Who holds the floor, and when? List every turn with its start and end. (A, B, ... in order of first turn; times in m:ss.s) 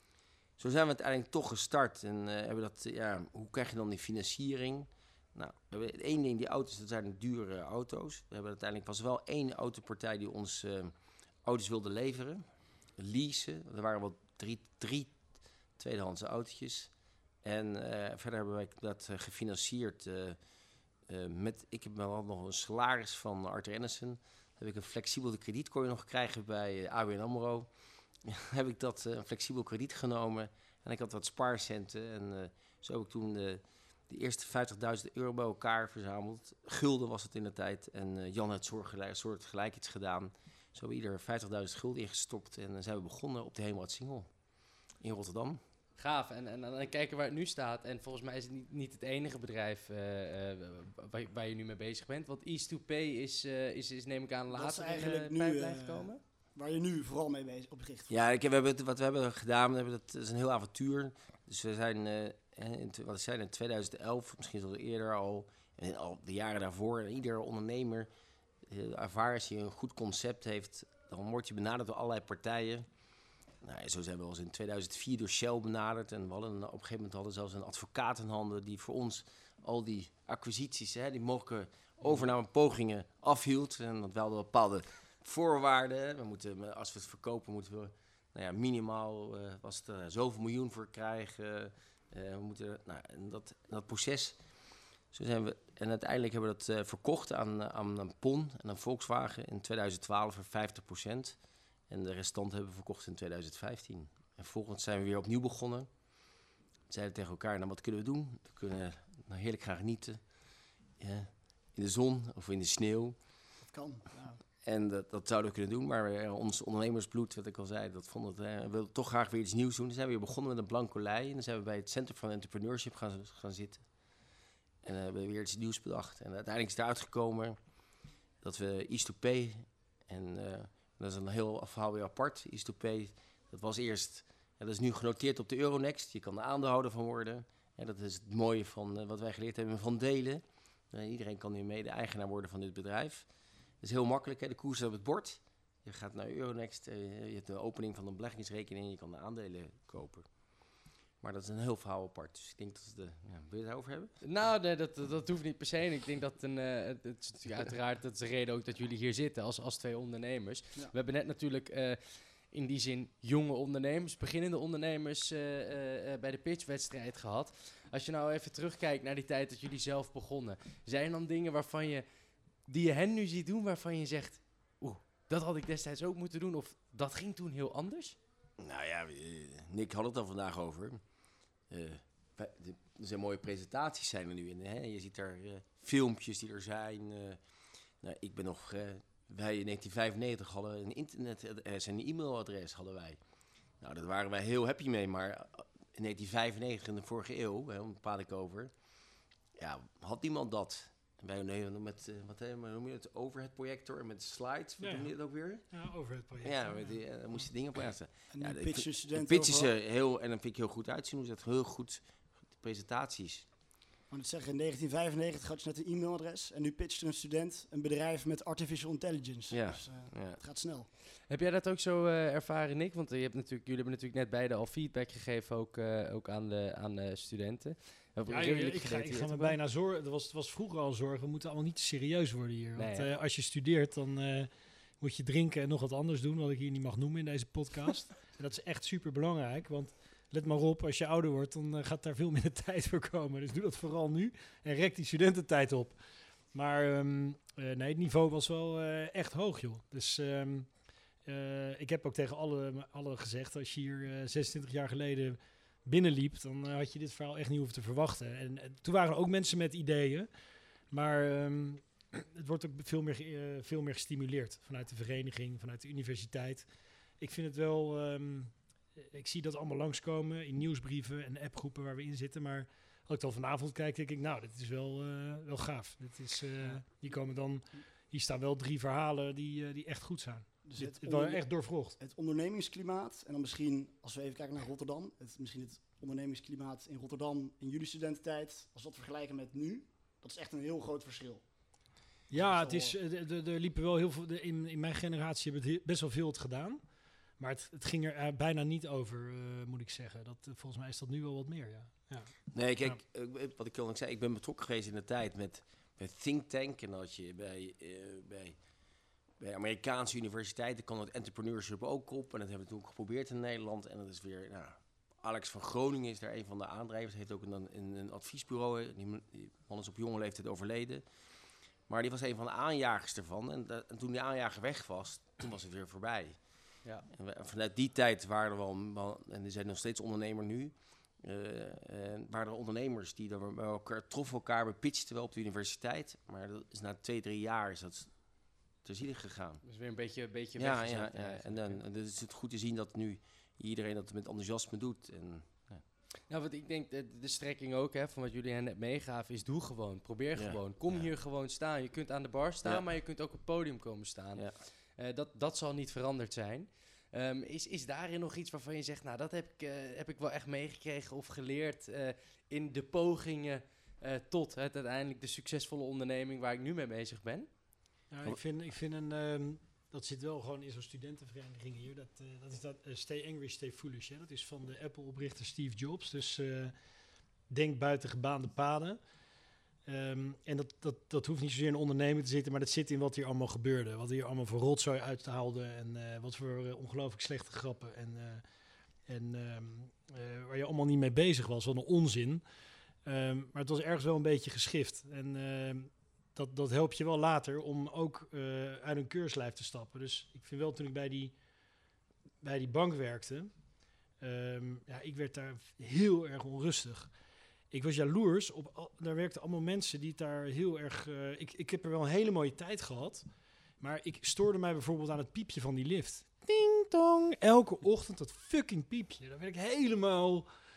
0:00.6-0:12.4 A
0:13.0-0:20.4 A
0:21.0-0:27.7 A
0:28.2-0:44.4 A
0:45.0-0:45.6 A
0:46.0-0:56.2 B
0:54.5-0:58.1 C
0:58.1-1:08.1 A
1:08.7-1:12.9 A
1:13.6-1:34.4 A
1:35.1-1:41.4 A
1:41.9-1:45.9 A
1:46.9-1:50.2 A
1:51.0-1:53.2 A
1:53.6-1:54.4 C
1:54.6-2:03.8 A
2:04.8-2:07.6 A
2:08.4-2:23.3 A
2:23.8-2:34.1 A
2:34.2-2:52.0 B
2:52.7-2:58.2 B
2:58.6-3:01.0 A
3:01.7-3:07.4 A
3:08.0-3:13.2 A
3:13.8-3:18.7 A
3:19.6-3:25.6 A
3:24.8-3:25.1 D
3:25.7-3:27.0 D
3:26.4-3:33.5 A
3:28.3-3:29.7 C
3:34.1-3:40.9 C
3:39.5-3:40.4 A
3:41.3-3:49.6 B
3:48.3-4:06.0 D
3:52.8-3:53.1 B
4:06.5-4:10.7 D
4:11.2-4:20.3 D
4:20.9-4:26.7 D
4:27.2-4:42.0 D
4:40.6-4:51.4 C
4:52.3-4:53.0 C
4:52.3-4:56.8 D
4:57.4-5:03.0 D
5:02.5-5:08.6 A
5:09.4-5:21.0 A
5:21.9-5:26.4 A
5:27.1-5:39.6 A
5:39.6-5:41.8 B
5:40.6-5:45.8 A
5:46.3-6:07.5 B
5:50.4-5:51.1 A
6:08.1-6:16.7 D
6:17.5-6:19.0 D
6:19.9-6:28.4 D
6:29.1-6:32.4 D
6:33.0-6:41.3 D
6:42.4-6:43.5 D
6:44.2-6:47.1 D
6:47.7-6:53.2 D
6:53.8-7:00.5 D